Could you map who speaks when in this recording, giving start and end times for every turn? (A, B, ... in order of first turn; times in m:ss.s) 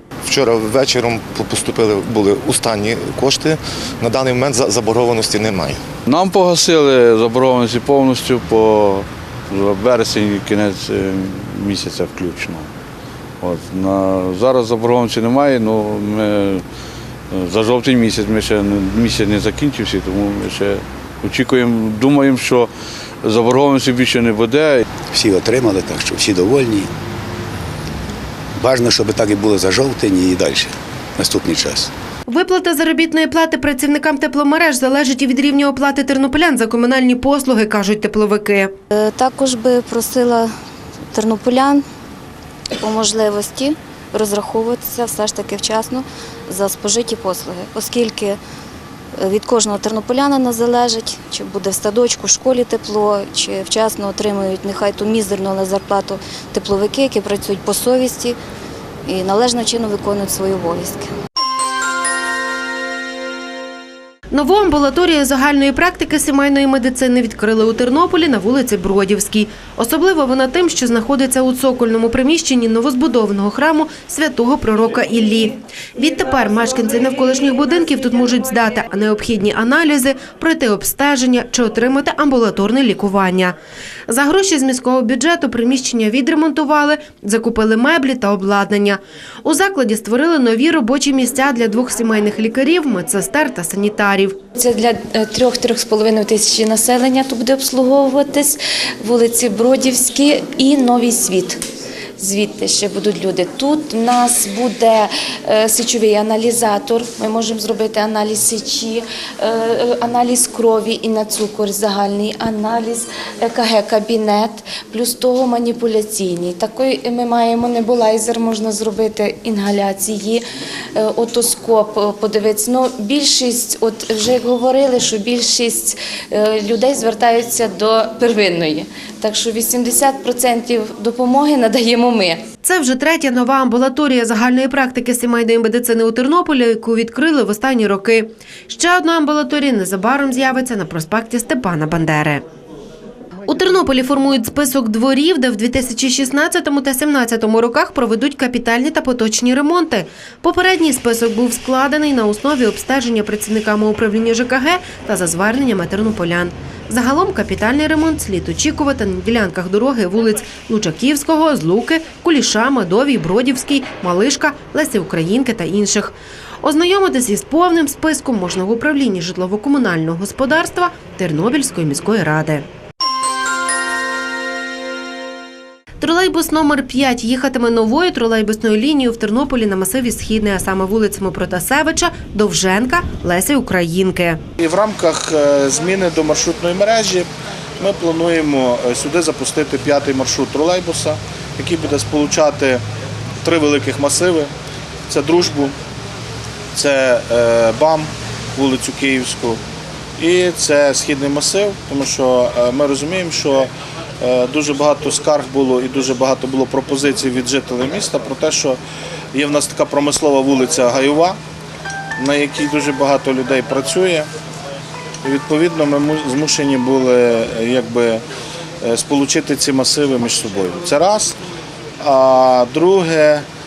0:00.2-0:05.8 A
0:06.1-0:12.7 B
0:13.4-0:16.6 B
0:17.3-0:22.7 B
0:23.2-0:24.9 B
0:25.1-0:26.9 C
0:28.6-0:31.9 C
0:32.3-0:38.7 D
0:38.9-0:40.5 E
0:41.1-0:41.8 E
0:42.8-0:48.4 E
0:49.2-0:58.4 E
0:59.1-1:01.1 E
1:04.3-1:23.6 D
1:24.1-1:34.4 D
1:34.6-1:41.6 F
1:42.2-2:00.4 F
2:01.0-2:12.4 F
2:12.6-2:22.4 D
2:23.5-2:52.6 D
2:56.0-3:04.4 D
3:04.6-3:07.3 G
3:07.8-3:12.8 G
3:13.4-3:14.5 G
3:15.1-3:15.7 G
3:16.7-3:19.6 G
3:20.2-3:23.7 G
3:24.2-3:28.8 G
3:29.3-3:31.4 G
3:32.2-3:34.3 G
3:35.2-3:38.2 G
3:38.8-3:41.4 G
3:42.0-3:43.4 G